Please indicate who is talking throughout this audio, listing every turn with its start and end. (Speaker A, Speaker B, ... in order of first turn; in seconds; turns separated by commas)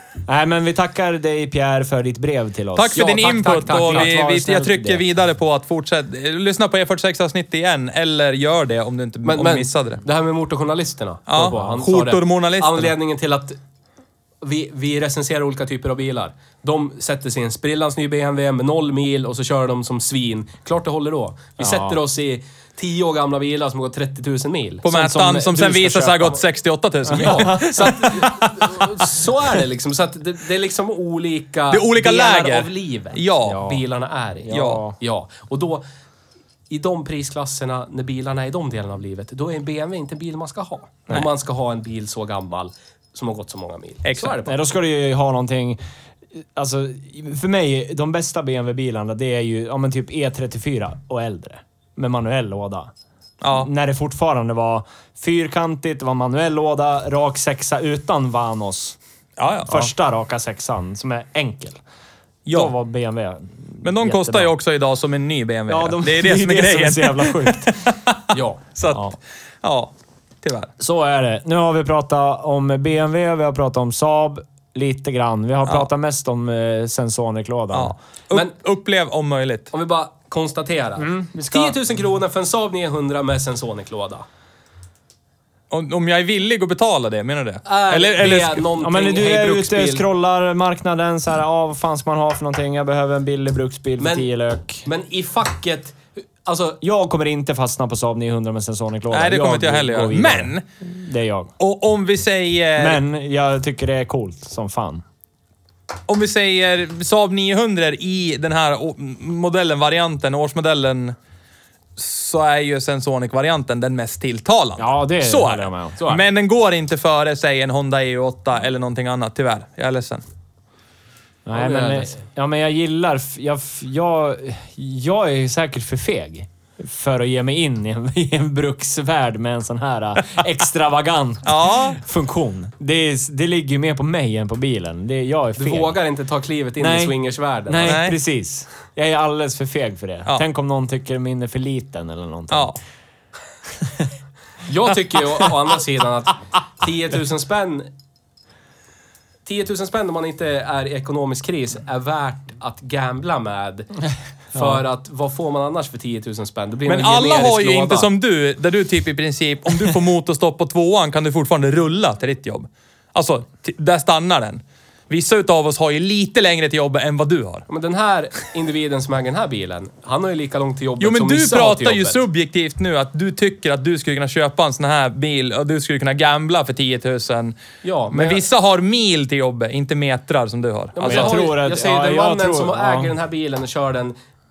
Speaker A: 0.3-5.1, Speaker B: 2.8-10.0, Speaker C: 3.0-4.2, Speaker C: 9.2-13.6, Speaker B: 11.3-12.9, Speaker A: 11.5-11.8, Speaker C: 14.4-24.9, Speaker A: 21.6-22.0, Speaker B: 24.8-29.1, Speaker A: 24.9-26.4, Speaker A: 27.1-28.0, Speaker C: 27.1-35.8, Speaker B: 31.7-33.8, Speaker A: 34.4-35.0, Speaker B: 34.5-34.8, Speaker C: 36.7-44.6, Speaker B: 44.0-44.4, Speaker A: 44.4-45.8, Speaker A: 46.4-52.9, Speaker B: 53.4-53.7, Speaker A: 53.5-59.0, Speaker B: 59.4-59.9, Speaker A: 59.7-61.8, Speaker B: 62.5-62.7, Speaker A: 62.5-64.5, Speaker B: 63.8-69.1, Speaker A: 65.7-67.8, Speaker C: 68.3-68.6, Speaker A: 68.9-69.2, Speaker B: 69.6-70.7, Speaker A: 70.8-77.9, Speaker B: 77.7-79.7, Speaker C: 79.7-84.2, Speaker A: 81.0-81.8, Speaker B: 85.7-88.6, Speaker C: 87.7-90.1, Speaker A: 88.2-94.9, Speaker C: 94.0-94.3, Speaker C: 94.8-96.8, Speaker A: 96.8-101.5, Speaker B: 99.1-100.6, Speaker B: 101.6-103.0, Speaker A: 102.8-105.0, Speaker B: 106.1-111.2, Speaker B: 112.0-120.2, Speaker A: 114.8-116.2, Speaker A: 121.5-136.0, Speaker C: 121.5-122.2, Speaker B: 131.4-132.0, Speaker C: 135.6-138.0, Speaker A: 136.8-137.2, Speaker A: 137.7-142.8, Speaker B: 137.8-138.2, Speaker B: 142.5-142.8, Speaker C: 144.7-147.9, Speaker C: 149.4-153.9, Speaker C: 154.5-158.1, Speaker A: 154.6-154.8, Speaker B: 156.9-167.7, Speaker C: 167.7-172.2, Speaker B: 171.0-181.4, Speaker C: 177.8-178.4, Speaker C: 180.9-184.2, Speaker A: 181.0-183.1